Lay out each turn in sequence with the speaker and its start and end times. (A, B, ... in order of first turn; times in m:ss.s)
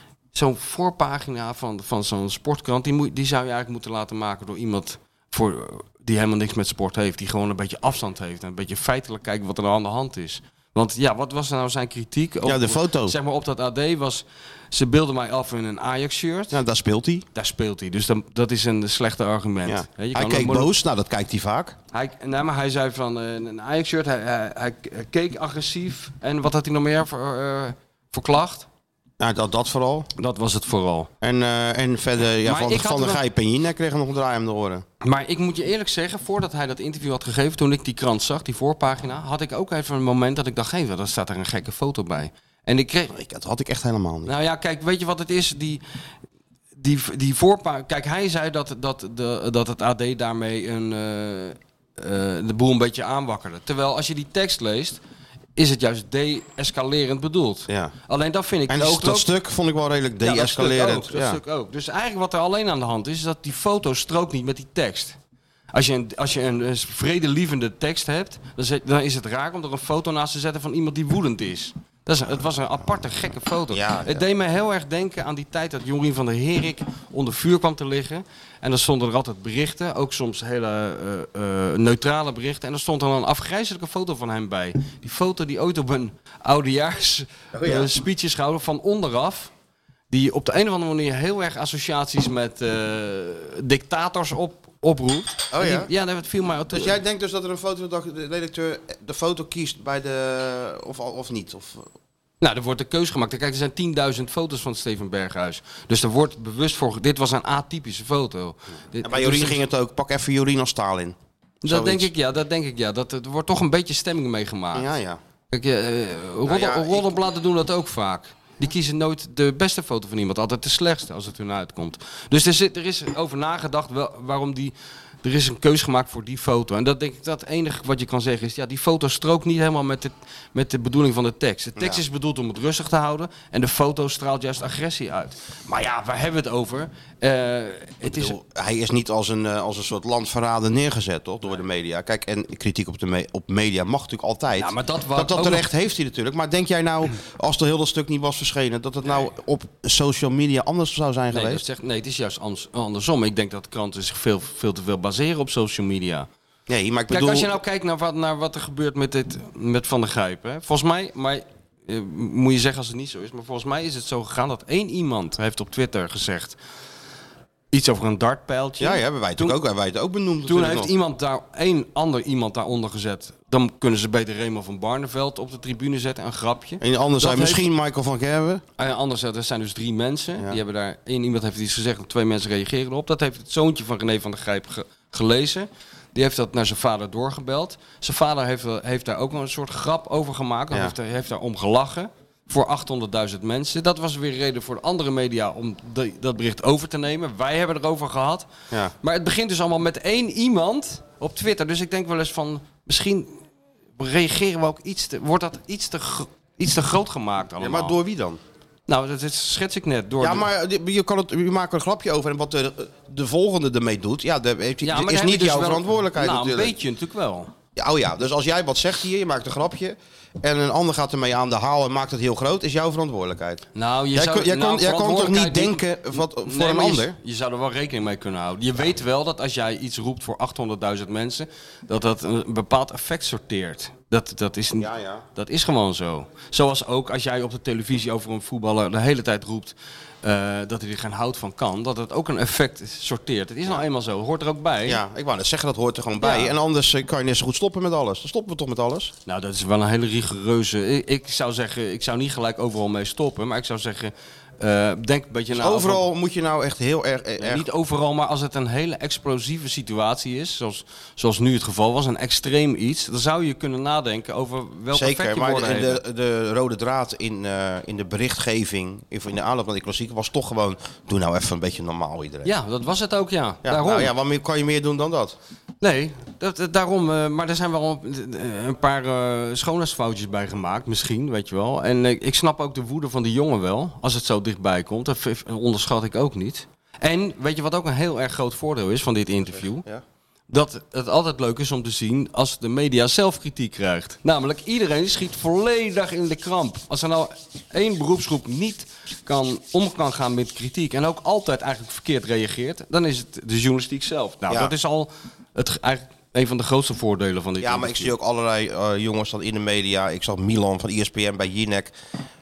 0:00.3-0:16.6 A
0:12.4-0:13.2 B
0:16.5-0:17.3 B
0:17.4-0:20.7 A
0:19.7-0:21.8 B
0:21.9-0:28.7 A
0:29.2-0:30.1 B
0:30.2-0:31.1 A
0:31.2-0:34.8 B
0:32.4-0:33.2 A
0:35.0-0:43.1 A
0:43.1-0:44.3 B
0:44.2-0:45.8 A
0:46.8-0:55.0 A
0:55.6-0:59.3 A
0:57.7-0:57.9 B
0:58.7-1:01.4 B
1:00.2-1:05.2 A
1:05.7-1:29.5 A
1:13.7-1:14.2 B
1:27.5-1:27.9 B
1:30.1-1:37.0 A
1:35.5-1:35.9 B
1:36.7-1:41.9 B
1:42.4-1:49.6 A
1:49.0-1:52.1 B
1:51.6-1:54.9 A
1:54.7-1:55.2 B
1:55.5-2:18.4 A
1:56.5-1:57.2 B
2:11.8-2:12.0 B
2:18.0-2:31.6 B
2:24.5-2:25.7 A
2:31.3-2:36.3 A
2:36.7-2:37.6 B
2:37.1-2:46.6 A
2:47.7-2:49.6 A
2:48.8-2:50.9 B
2:50.4-2:57.7 A
2:56.8-2:58.6 B
2:58.8-3:18.5 A
3:19.0-3:23.4 A
3:24.0-3:28.0 A
3:27.6-3:28.4 B
3:28.9-3:30.5 A
3:30.2-3:36.8 B
3:34.8-3:37.5 A
3:37.8-3:47.2 B
3:43.8-4:05.0 A
3:54.8-3:55.2 B
4:04.8-4:09.1 B
4:06.2-4:06.6 A
4:09.3-4:16.0 A
4:15.5-4:17.7 B
4:17.4-4:26.0 A
4:24.9-4:32.5 B
4:32.4-4:34.1 A
4:33.6-4:35.4 B
4:35.8-4:49.9 A
4:50.5-5:08.1 A
5:04.5-5:04.7 B
5:07.6-5:11.9 B